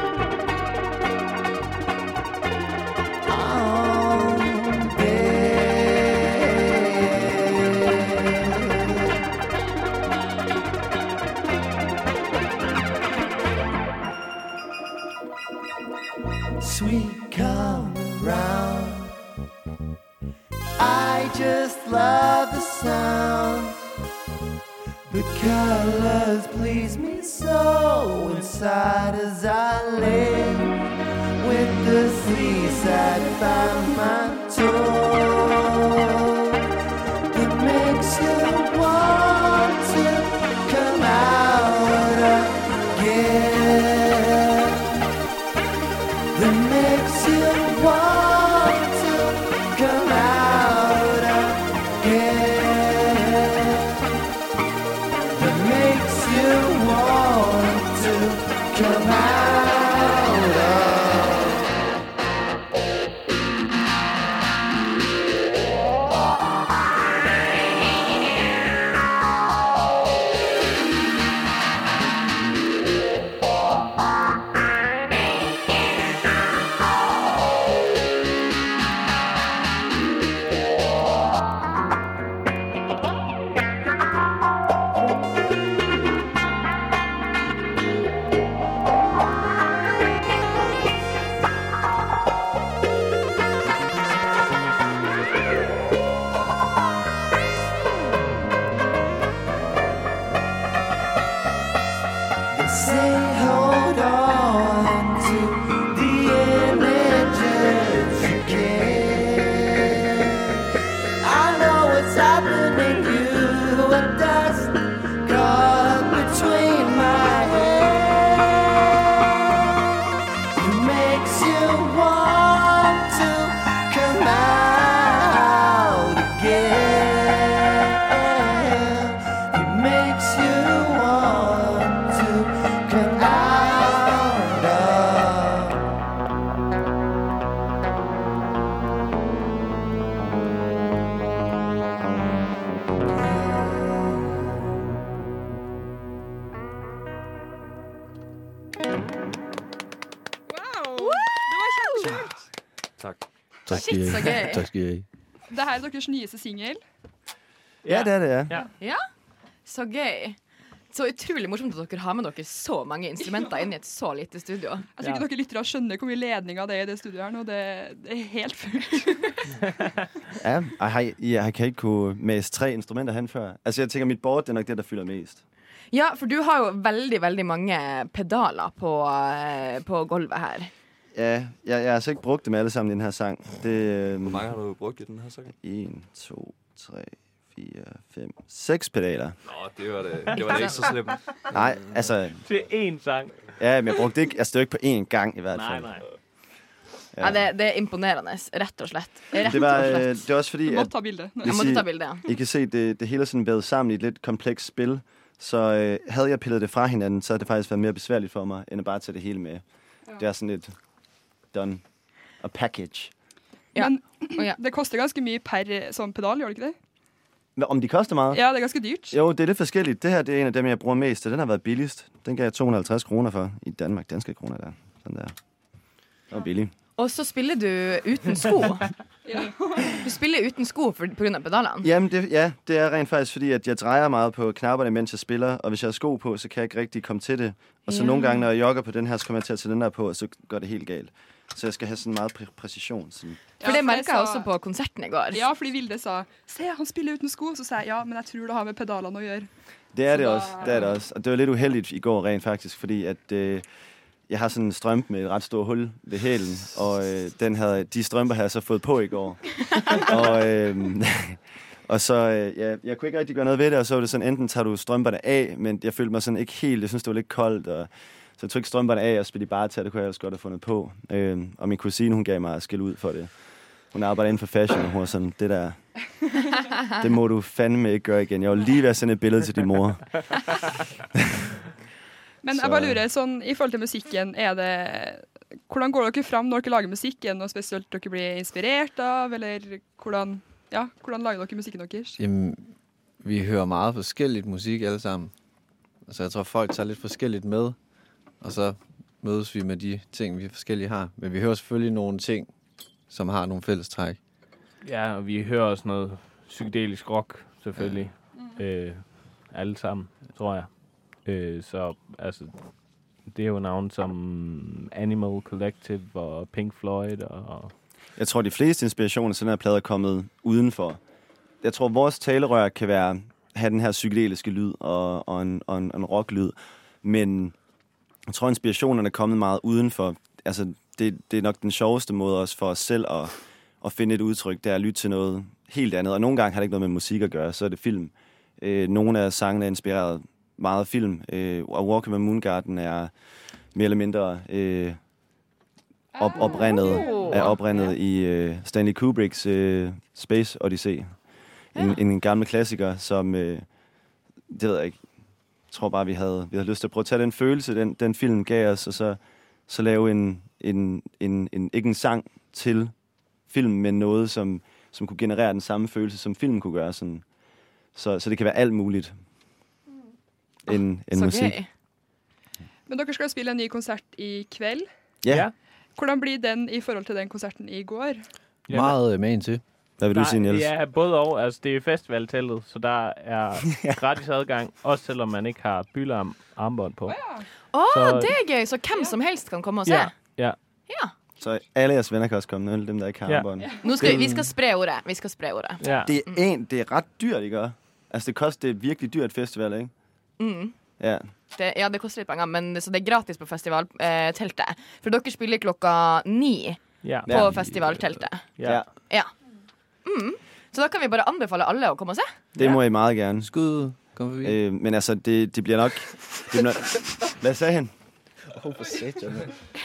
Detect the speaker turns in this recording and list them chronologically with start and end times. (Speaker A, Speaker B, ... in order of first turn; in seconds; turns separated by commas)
Speaker A: 3.3-9.1, Speaker A: 16.6-19.1, Speaker A: 20.8-23.9, Speaker A: 25.1-30.9, Speaker A: 31.4-36.6, Speaker A: 37.3-45.0, Speaker A: 46.3-54.0, Speaker A: 55.3-61.6, Speaker A: 102.5-110.6, Speaker A: 111.2-119.9, Speaker A: 120.6-135.9, Speaker A: 143.1-144.3, Speaker B: 150.5-152.3, Speaker C: 150.9-152.0, Speaker D: 153.0-153.2, Speaker E: 153.7-155.0, Speaker C: 153.7-154.6, Speaker B: 155.5-156.8, Speaker F: 157.8-158.7, Speaker G: 157.9-158.5, Speaker C: 159.6-160.4, Speaker C: 160.9-164.8, Speaker B: 165.0-169.5, Speaker G: 170.4-175.4, Speaker C: 175.9-180.7, Speaker G: 181.1-184.5, Speaker D: 184.2-185.5, Speaker G: 185.6-189.4, Speaker D: 189.4-191.2, Speaker F: 190.3-191.4, Speaker G: 191.5-192.4, Speaker F: 192.4-193.3, Speaker G: 193.6-196.0, Speaker F: 195.5-196.0, Speaker G: 197.2-197.5, Speaker C: 197.2-200.1, Speaker G: 199.4-209.6, Speaker B: 200.7-201.6, Speaker C: 201.4-202.2, Speaker G: 210.2-210.7, Speaker G: 211.5-211.8, Speaker G: 212.4-213.1, Speaker C: 213.7-214.6, Speaker B: 213.8-216.8, Speaker G: 217.6-218.4, Speaker B: 218.3-219.2, Speaker G: 219.1-225.3, Speaker G: 226.3-226.7, Speaker C: 227.0-228.9, Speaker B: 229.2-230.0, Speaker C: 229.8-231.9, Speaker G: 231.8-243.4, Speaker C: 237.8-238.3, Speaker B: 243.6-244.5, Speaker C: 243.6-245.4, Speaker B: 245.3-249.5, Speaker G: 249.9-253.6, Speaker B: 250.1-250.8, Speaker G: 254.3-273.3, Speaker G: 273.9-275.8, Speaker G: 276.8-280.4, Speaker B: 282.4-292.2, Speaker G: 282.5-283.0, Speaker E: 292.2-292.6, Speaker E: 293.2-295.3, Speaker E: 296.1-297.8, Speaker E: 298.4-302.5, Speaker E: 303.1-304.2, Speaker F: 304.8-312.5, Speaker F: 313.2-317.7, Speaker G: 318.1-321.0, Speaker G: 321.6-327.5, Speaker G: 328.3-343.1, Speaker G: 343.7-345.0, Speaker B: 346.2-347.4, Speaker G: 346.2-351.1, Speaker C: 346.4-347.5, Speaker C: 351.7-352.0, Speaker G: 351.8-353.6, Speaker G: 354.5-355.0, Speaker G: 355.7-362.9, Speaker G: 363.5-367.2, Speaker G: 367.9-369.1, Speaker G: 370.7-371.6, Speaker C: 370.7-371.7, Speaker B: 372.9-374.9, Speaker F: 375.3-375.5, Speaker B: 376.0-378.2, Speaker F: 378.7-379.0, Speaker E: 378.7-379.6, Speaker G: 380.0-380.7, Speaker F: 380.1-387.2, Speaker G: 383.7-384.0, Speaker B: 387.1-387.4, Speaker C: 387.7-390.1, Speaker F: 387.9-388.3, Speaker F: 389.9-390.6, Speaker G: 391.4-394.2, Speaker C: 393.8-396.4, Speaker F: 395.8-396.1, Speaker G: 396.1-399.9, Speaker C: 400.4-400.8, Speaker G: 401.0-401.3, Speaker C: 401.5-408.5, Speaker F: 407.0-407.8, Speaker G: 407.3-407.6, Speaker F: 408.6-408.8, Speaker C: 410.0-412.3, Speaker G: 412.6-413.5, Speaker E: 413.4-414.6, Speaker G: 414.4-417.9, Speaker E: 418.5-419.6